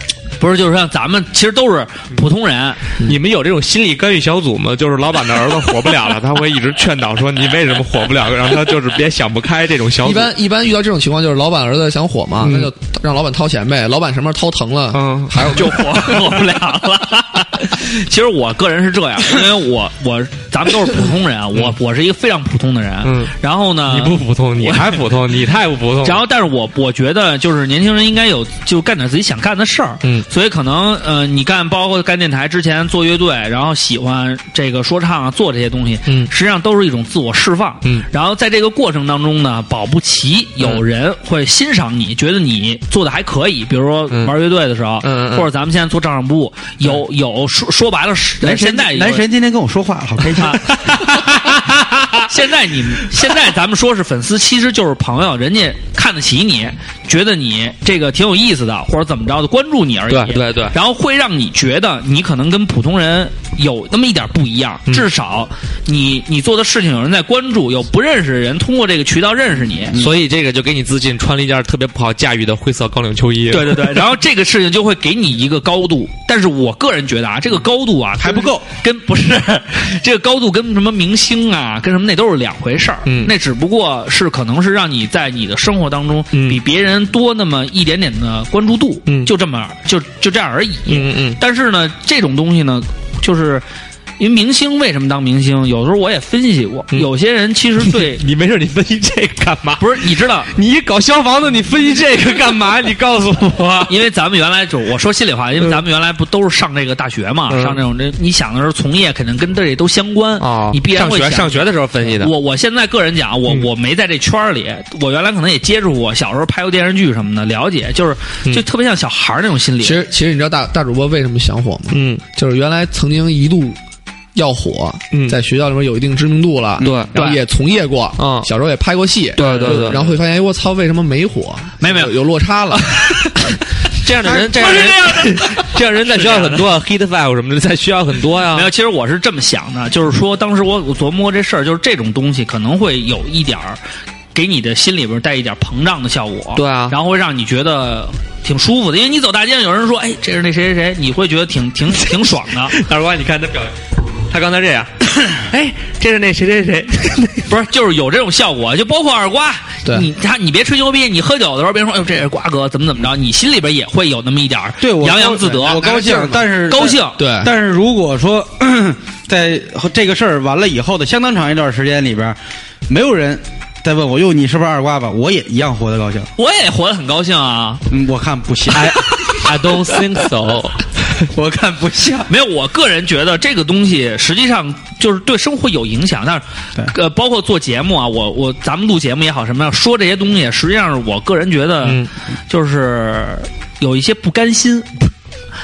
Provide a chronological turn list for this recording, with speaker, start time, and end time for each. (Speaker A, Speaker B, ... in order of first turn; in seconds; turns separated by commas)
Speaker A: 0.4-2.8, Speaker B: 3.0-10.3, Speaker C: 10.0-16.1, Speaker B: 12.4-12.7, Speaker B: 14.9-16.3, Speaker A: 15.4-25.0, Speaker B: 23.0-23.3, Speaker B: 23.9-26.2, Speaker A: 26.0-49.2, Speaker B: 45.0-45.5, Speaker D: 48.4-50.7, Speaker A: 50.4-51.2, Speaker B: 50.7-52.3, Speaker A: 52.2-70.0, Speaker B: 60.1-60.7, Speaker B: 69.9-74.0, Speaker A: 73.5-93.6, Speaker D: 78.2-78.6, Speaker B: 83.0-83.3, Speaker B: 86.3-86.6, Speaker B: 90.9-91.4, Speaker A: 94.2-98.2, Speaker B: 97.8-103.9, Speaker A: 99.8-100.5, Speaker A: 103.9-120.0, Speaker B: 107.5-107.8, Speaker B: 110.4-112.3, Speaker C: 119.8-123.8, Speaker B: 121.9-122.2, Speaker C: 124.3-133.2, Speaker B: 125.1-125.4, Speaker B: 126.8-127.1, Speaker A: 127.1-127.4, Speaker B: 128.2-128.5, Speaker B: 129.4-130.1, Speaker A: 129.4-129.7, Speaker A: 131.8-132.1, Speaker A: 132.9-133.5, Speaker B: 133.9-138.7, Speaker A: 134.3-136.7, Speaker A: 138.5-143.8, Speaker A: 144.3-152.8, Speaker B: 146.6-146.9, Speaker B: 152.7-153.7, Speaker B: 154.3-157.5, Speaker A: 157.5-165.9, Speaker D: 164.8-176.3, Speaker C: 165.6-167.5, Speaker A: 166.7-167.2, Speaker A: 176.4-177.8, Speaker D: 177.9-179.2, Speaker B: 178.7-181.2, Speaker A: 179.1-179.5, Speaker D: 181.3-182.3, Speaker A: 182.3-195.1, Speaker B: 191.8-192.1